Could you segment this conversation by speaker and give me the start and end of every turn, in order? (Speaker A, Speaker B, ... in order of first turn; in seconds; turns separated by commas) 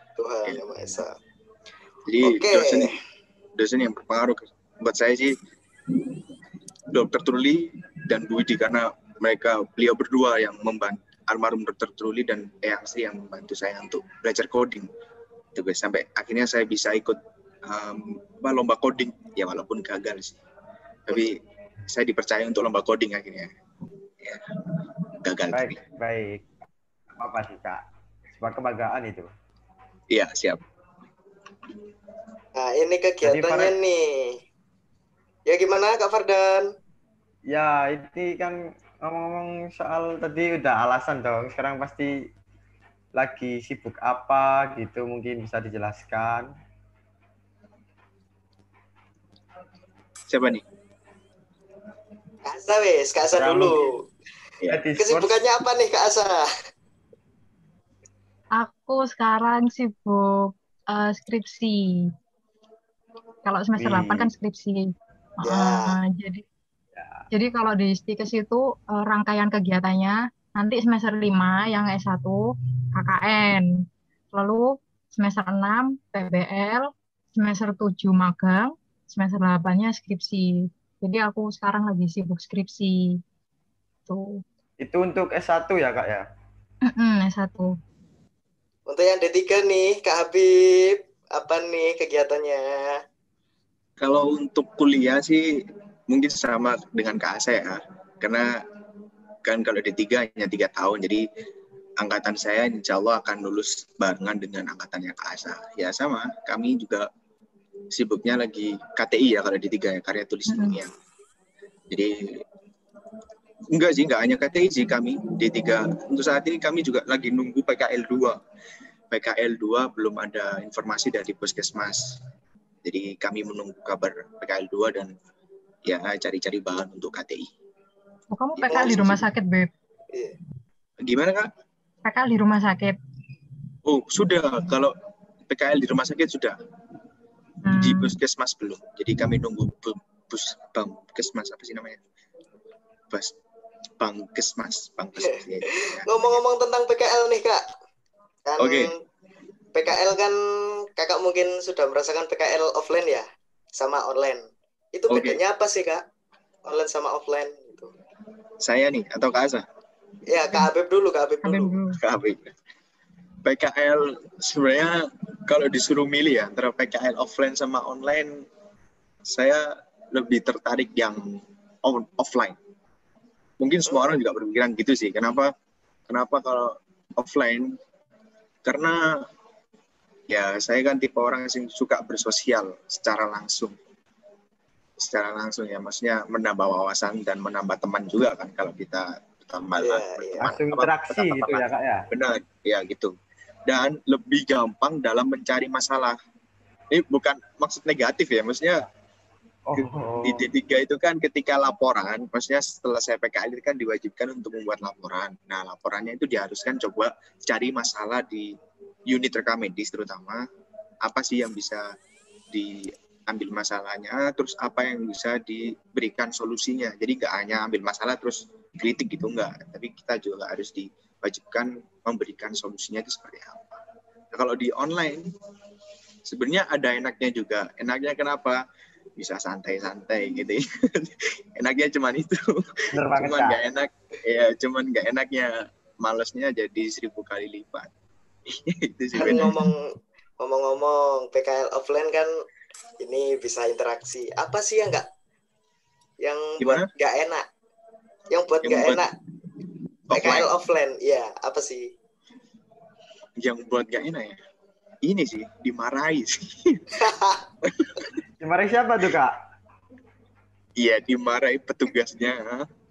Speaker A: 0.2-1.1, Speaker B: 2.1-3.0, Speaker A: 2.2-3.0, Speaker B: 3.6-5.4, Speaker B: 6.9-14.9, Speaker B: 15.5-20.4, Speaker B: 21.1-21.4, Speaker B: 21.9-23.5, Speaker B: 24.2-24.4, Speaker B: 25.2-25.8, Speaker C: 25.5-26.5, Speaker C: 27.2-27.8, Speaker C: 28.3-29.3, Speaker B: 30.1-30.6, Speaker A: 32.6-34.4, Speaker C: 33.2-33.8, Speaker A: 35.5-36.7, Speaker C: 37.5-42.2, Speaker C: 43.2-46.5, Speaker B: 50.3-50.6, Speaker A: 52.5-54.0, Speaker C: 53.3-53.9, Speaker C: 54.7-55.4, Speaker A: 55.0-56.5, Speaker D: 58.6-61.8, Speaker D: 63.5-64.8, Speaker C: 63.8-64.3, Speaker A: 65.4-66.0, Speaker D: 65.4-66.4, Speaker C: 67.0-67.2, Speaker D: 67.3-72.4, Speaker D: 73.0-73.7, Speaker D: 74.3-83.2, Speaker D: 84.1-84.4, Speaker C: 84.8-86.2, Speaker D: 86.9-87.7, Speaker A: 88.9-93.0, Speaker B: 94.0-95.5, Speaker B: 96.1-98.6, Speaker B: 99.5-101.2, Speaker B: 102.0-107.1, Speaker B: 107.9-110.9, Speaker D: 110.5-110.8, Speaker B: 113.7-118.4, Speaker B: 119.1-122.2, Speaker B: 122.8-125.1, Speaker B: 125.9-127.5, Speaker D: 128.3-129.7, Speaker A: 128.6-129.1, Speaker B: 128.7-129.1, Speaker B: 131.0-131.5, Speaker D: 132.1-133.0, Speaker B: 133.8-134.9, Speaker B: 135.5-136.6, Speaker D: 137.6-138.2, Speaker B: 137.8-142.0, Speaker B: 143.1-143.3, Speaker B: 144.0-146.4, Speaker A: 145.7-147.7, Speaker A: 148.5-149.0, Speaker B: 148.6-148.9, Speaker A: 149.8-150.4, Speaker A: 151.0-153.3, Speaker A: 153.8-156.0, Speaker B: 155.1-155.4, Speaker A: 156.7-157.9, Speaker B: 158.6-159.7, Speaker A: 160.3-161.8, Speaker D: 161.4-162.0, Speaker B: 162.0-162.5, Speaker B: 163.4-168.5, Speaker B: 169.3-171.2, Speaker B: 171.8-172.6, Speaker B: 173.6-175.5, Speaker B: 176.1-177.8, Speaker B: 178.6-179.0, Speaker B: 180.3-183.8, Speaker B: 185.0-193.1, Speaker A: 189.8-190.6, Speaker C: 190.4-192.1, Speaker B: 193.7-196.2, Speaker B: 196.9-198.9, Speaker C: 199.7-200.5, Speaker B: 199.8-208.5, Speaker B: 209.1-210.4, Speaker B: 211.0-211.8, Speaker B: 212.5-223.8, Speaker B: 224.3-225.3, Speaker B: 226.3-228.6, Speaker B: 229.2-237.9, Speaker C: 232.9-233.6, Speaker B: 238.5-239.5, Speaker A: 239.2-239.8, Speaker D: 239.2-239.7, Speaker A: 240.4-242.3, Speaker A: 243.0-245.1, Speaker A: 246.2-247.5, Speaker B: 246.6-246.9, Speaker A: 248.3-249.1, Speaker B: 248.6-249.1, Speaker B: 250.1-250.5, Speaker A: 250.1-251.9, Speaker B: 253.4-254.4, Speaker B: 255.0-257.0, Speaker A: 257.0-257.4, Speaker B: 257.6-258.2, Speaker C: 258.4-259.3, Speaker B: 260.8-262.7